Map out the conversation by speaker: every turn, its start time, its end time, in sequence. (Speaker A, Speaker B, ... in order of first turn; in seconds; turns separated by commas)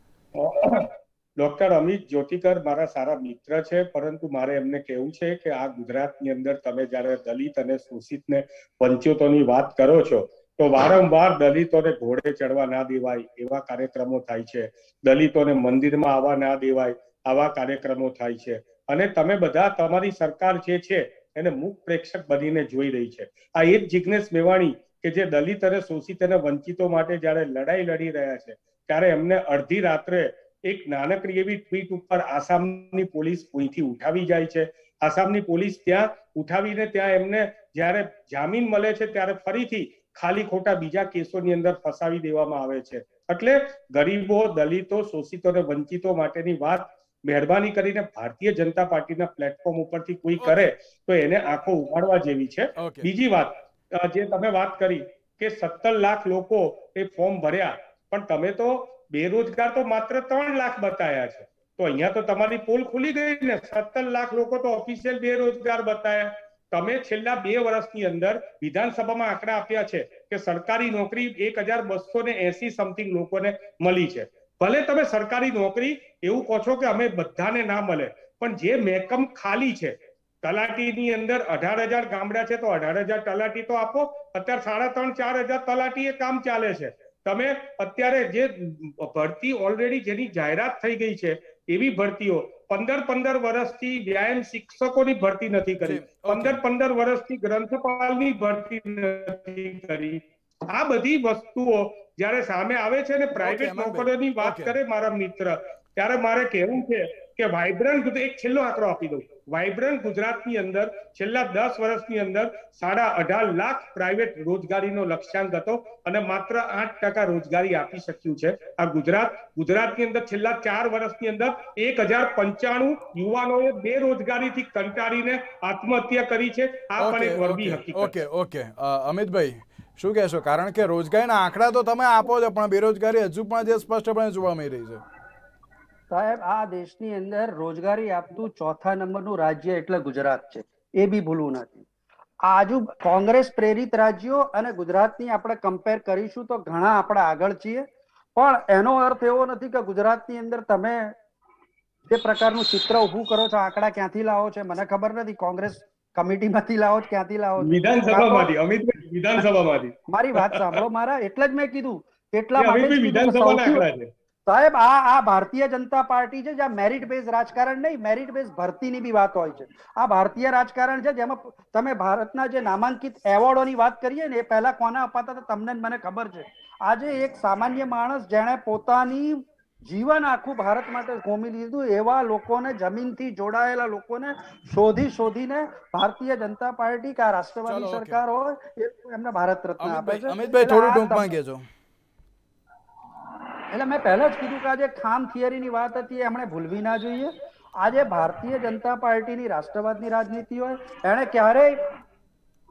Speaker A: 0.3-128.1, Speaker B: 50.4-50.7, Speaker B: 52.8-53.1, Speaker B: 95.8-96.6, Speaker B: 103.4-104.8, Speaker B: 127.0-135.0, Speaker C: 136.1-141.8, Speaker C: 142.4-151.1, Speaker C: 152.1-158.5, Speaker A: 157.6-159.9, Speaker C: 160.1-163.8, Speaker A: 162.6-164.1, Speaker C: 164.5-191.3, Speaker B: 187.7-188.2, Speaker B: 189.8-191.7, Speaker C: 193.7-201.8